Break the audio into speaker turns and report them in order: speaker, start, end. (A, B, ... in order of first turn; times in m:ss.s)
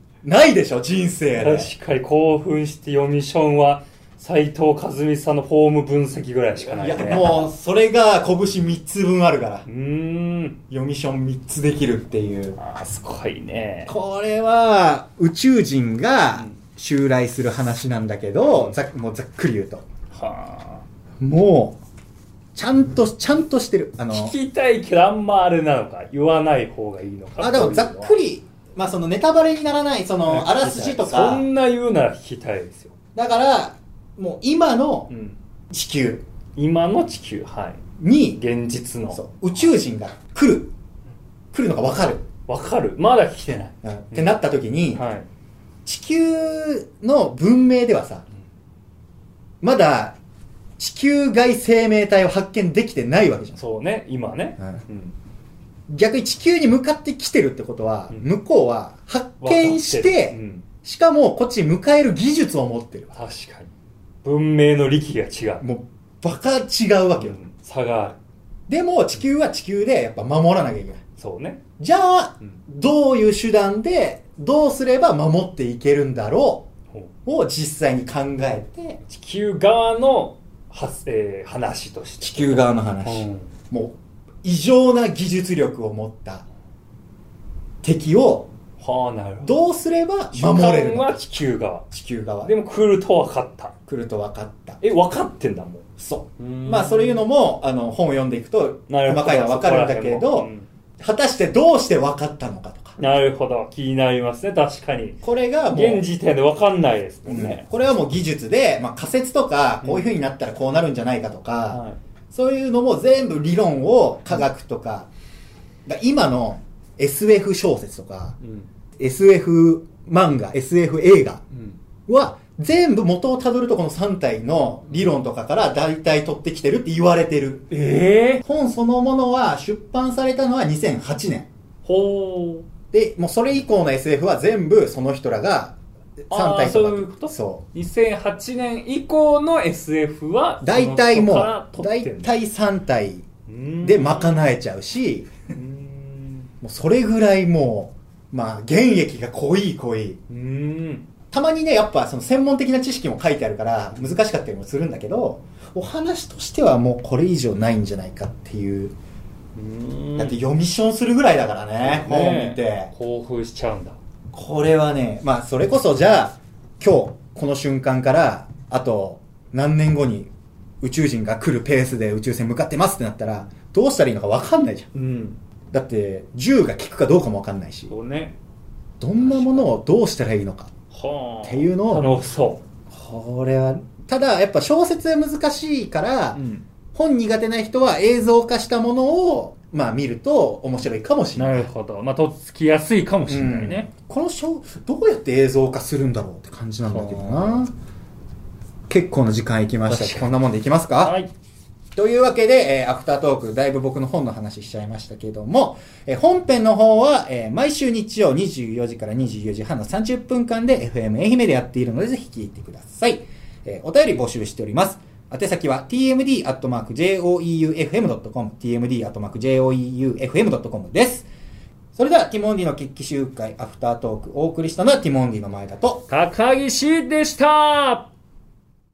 0:00.2-0:01.7 A
0:01.3-0:07.5 B
0:06.7-0:09.6 A
0:09.6-0:10.6 B
0:10.7-0:12.6 A
0:12.6-0:13.9 B
0:13.9-0:19.8 A
0:16.3-0:16.6 B
0:18.5-0:18.8 B
0:20.1-0:20.8 B
0:21.2-0:21.8 A
0:22.5-0:24.4 A
0:24.1-0:28.2 B
0:27.4-0:31.4 A
0:30.2-0:32.9 B
0:33.1-0:35.1 A
0:35.1-0:35.4 B
0:35.7-0:36.2 A
0:36.6-0:37.8 B
0:38.0-0:38.4 A
0:38.4-0:39.7 B
0:39.1-0:40.7 A
0:41.5-0:42.2 A
0:42.5-0:44.3 B
0:43.8-0:45.1 A
0:45.0-0:45.3 B
0:45.8-0:48.2 A
0:49.6-0:50.2 A
0:50.8-0:53.6 A
0:53.6-0:55.1 B
0:55.9-1:03.1 A
0:59.4-1:00.6 B
1:03.1-1:03.7 B
1:04.2-1:05.6 B
1:05.6-1:07.4 A
1:07.2-1:08.2 B
1:08.7-1:11.0 A
1:11.2-1:11.6 B
1:11.8-1:16.7 A
1:17.2-1:19.0 A
1:19.0-1:23.5 B
1:22.2-1:26.4 A
1:27.8-1:28.5 A
1:28.8-1:29.6 B
1:29.4-1:31.2 A
1:30.3-1:31.8 B
1:31.9-1:32.5 A
1:32.4-1:33.7 B
1:33.9-1:34.8 A
1:34.8-1:35.8 B
1:36.0-1:43.0 A
1:36.4-1:37.2 B
1:38.9-1:40.7 B
1:43.0-1:45.2 B
1:45.2-1:46.0 A
1:45.7-1:47.7 B
1:47.2-1:55.1 A
1:51.7-1:52.0 B
1:55.8-1:58.4 A
1:58.4-1:58.7 B
1:59.0-2:01.4 A
2:01.5-2:01.8 B
2:02.1-2:07.7 A
2:07.7-2:08.4 B
2:08.4-2:11.5 A
2:11.8-2:12.6 B
2:12.9-2:17.6 A
2:16.3-2:22.3 B
2:20.6-2:23.2 A
2:23.5-2:24.4 B
2:23.8-2:25.3 A
2:25.5-2:26.5 B
2:26.6-2:30.2 A
2:30.3-2:31.1 B
2:31.3-2:38.9 A
2:39.6-2:40.4 B
2:40.2-2:42.9 A
2:41.8-2:44.0 B
2:44.3-2:50.3 A
2:50.8-2:54.9 A
2:54.9-2:55.4 B
2:55.7-2:57.9 A
2:57.9-2:58.4 B
2:59.0-3:00.7 A
2:59.2-2:59.7 B
3:00.9-3:02.6 B
3:01.4-3:02.1 A
3:02.9-3:06.4 A
3:06.3-3:06.6 B
3:06.9-3:11.7 A
3:11.3-3:13.9 B
3:13.3-3:17.7 A
3:16.9-3:17.6 B
3:18.9-3:21.2 A
3:19.9-3:20.3 B
3:21.0-3:21.3 B
3:21.9-3:41.3 A
3:42.0-3:46.0 A
3:46.1-3:48.1 B